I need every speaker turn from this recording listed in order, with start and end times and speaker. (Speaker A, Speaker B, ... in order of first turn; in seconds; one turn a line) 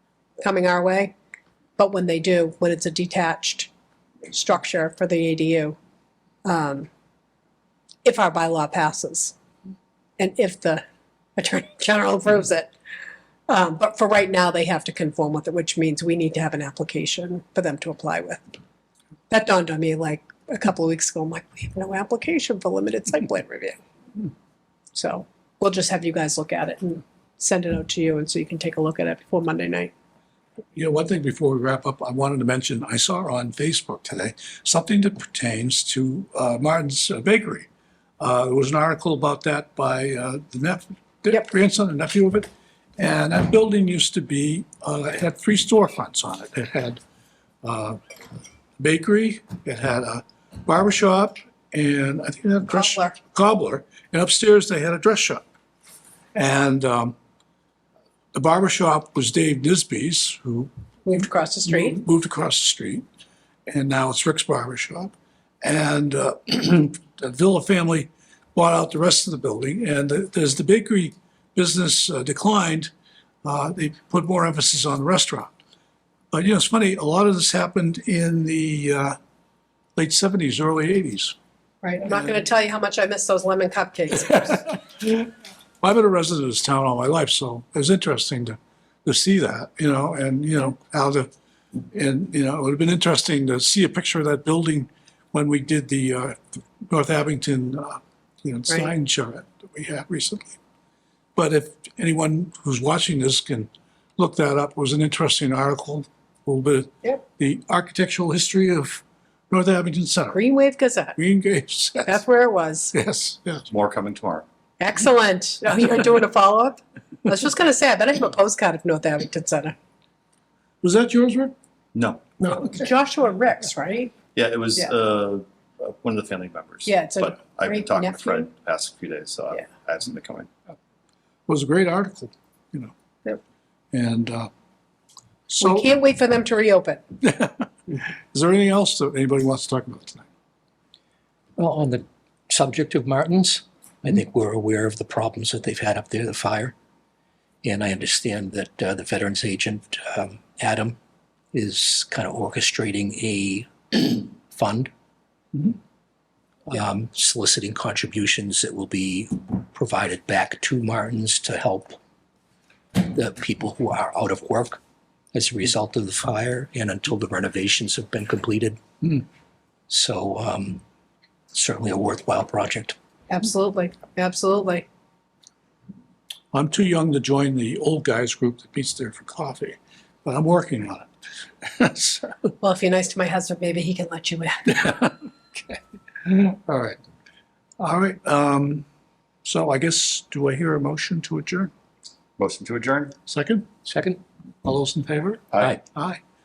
Speaker A: 0.4-1.1
Speaker A: 1.8-3.7
Speaker A: 4.3-5.8
Speaker A: 6.4-6.9
Speaker A: 8.0-9.3
Speaker A: 10.2-10.8
Speaker A: 11.4-12.7
Speaker A: 13.5-18.4
Speaker A: 19.3-23.8
Speaker A: 24.9-29.9
Speaker B: 30.7-37.7
Speaker B: 38.2-47.0
Speaker B: 47.6-48.0
Speaker B: 48.8-55.5
Speaker A: 52.7-53.2
Speaker B: 56.3-57.1
Speaker B: 58.3-60.7
Speaker A: 61.0-62.0
Speaker B: 61.6-63.0
Speaker B: 63.7-72.9
Speaker B: 73.4-75.5
Speaker B: 76.3-79.2
Speaker B: 80.0-81.3
Speaker A: 81.8-84.8
Speaker B: 85.8-91.3
Speaker B: 91.9-100.6
Speaker B: 101.3-110.4
Speaker A: 110.3-111.2
Speaker B: 111.2-112.2
Speaker A: 112.0-112.9
Speaker B: 112.9-113.7
Speaker C: 113.7-114.5
Speaker A: 114.8-119.8
Speaker B: 120.8-121.5
Speaker C: 121.9-122.2
Speaker B: 122.4-122.8
Speaker A: 122.5-124.1
Speaker C: 124.3-130.5
Speaker A: 126.8-128.5
Speaker B: 131.5-132.9
Speaker B: 133.9-134.5
Speaker B: 135.5-135.9
Speaker A: 135.6-137.0
Speaker B: 137.2-140.2
Speaker D: 141.6-146.7
Speaker D: 147.6-150.9
Speaker D: 151.5-154.9
Speaker D: 156.7-162.0
Speaker D: 162.9-164.8
Speaker D: 165.3-168.8
Speaker D: 169.9-170.8
Speaker D: 171.5-172.9
Speaker A: 173.3-174.8
Speaker B: 176.5-181.1
Speaker B: 181.6-182.5
Speaker A: 182.6-185.1
Speaker B: 186.2-187.0
Speaker B: 187.8-188.8
Speaker B: 189.4-191.7
Speaker C: 192.4-193.1
Speaker B: 193.2-193.7
Speaker D: 193.8-194.2
Speaker B: 194.6-196.2